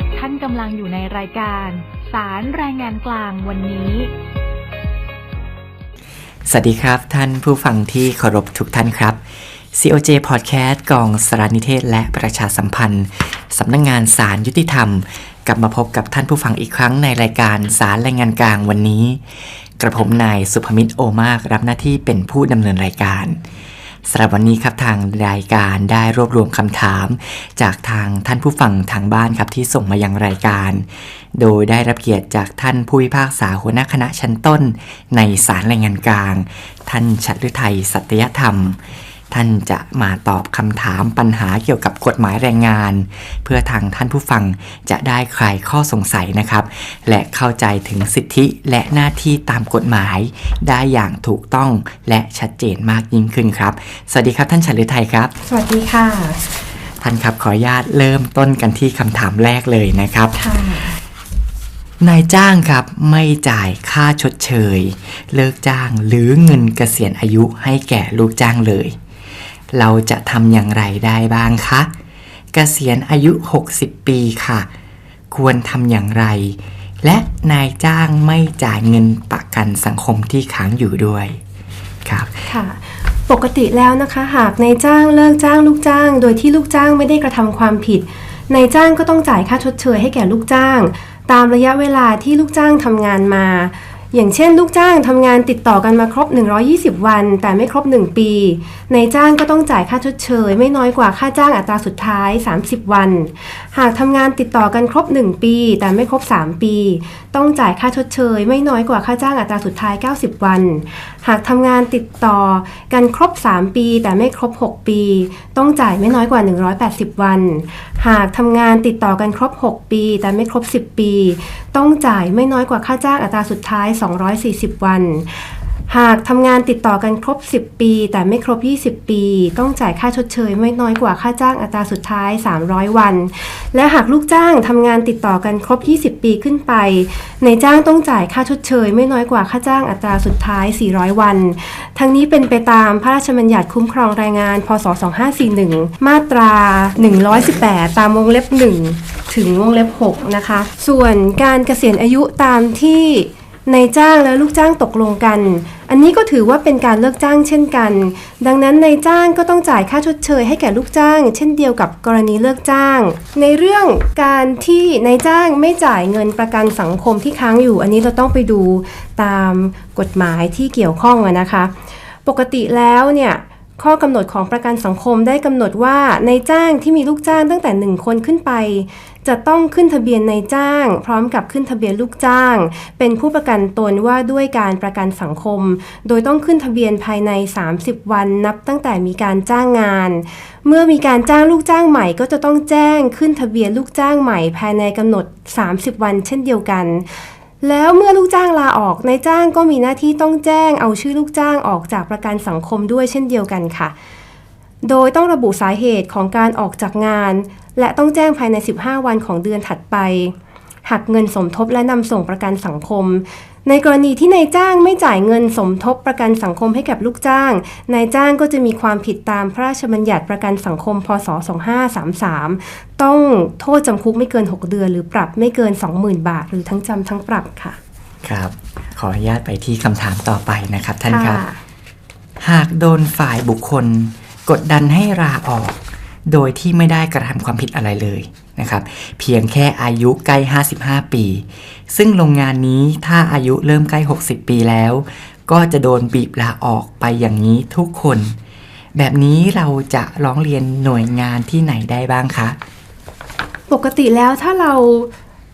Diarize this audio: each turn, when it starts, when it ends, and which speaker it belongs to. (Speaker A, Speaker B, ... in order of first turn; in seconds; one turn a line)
Speaker A: 0.4-4.1
Speaker B: 6.5-9.2
Speaker B: 9.7-19.2
Speaker B: 19.8-23.4
Speaker B: 24.1-38.8
Speaker B: 39.3-55.3
Speaker C: 55.4-56.4
Speaker B: 57.0-60.4
Speaker C: 60.4-61.0
Speaker B: 62.0-69.0
Speaker B: 69.7-71.9
Speaker B: 72.5-74.7
Speaker B: 75.3-81.4
Speaker B: 82.0-82.3
Speaker C: 82.5-171.7
Speaker C: 172.2-203.9
Speaker C: 204.8-227.8
Speaker B: 228.2-231.4
Speaker C: 231.1-231.6
Speaker B: 232.4-248.3
Speaker B: 248.9-252.6
Speaker C: 253.7-255.1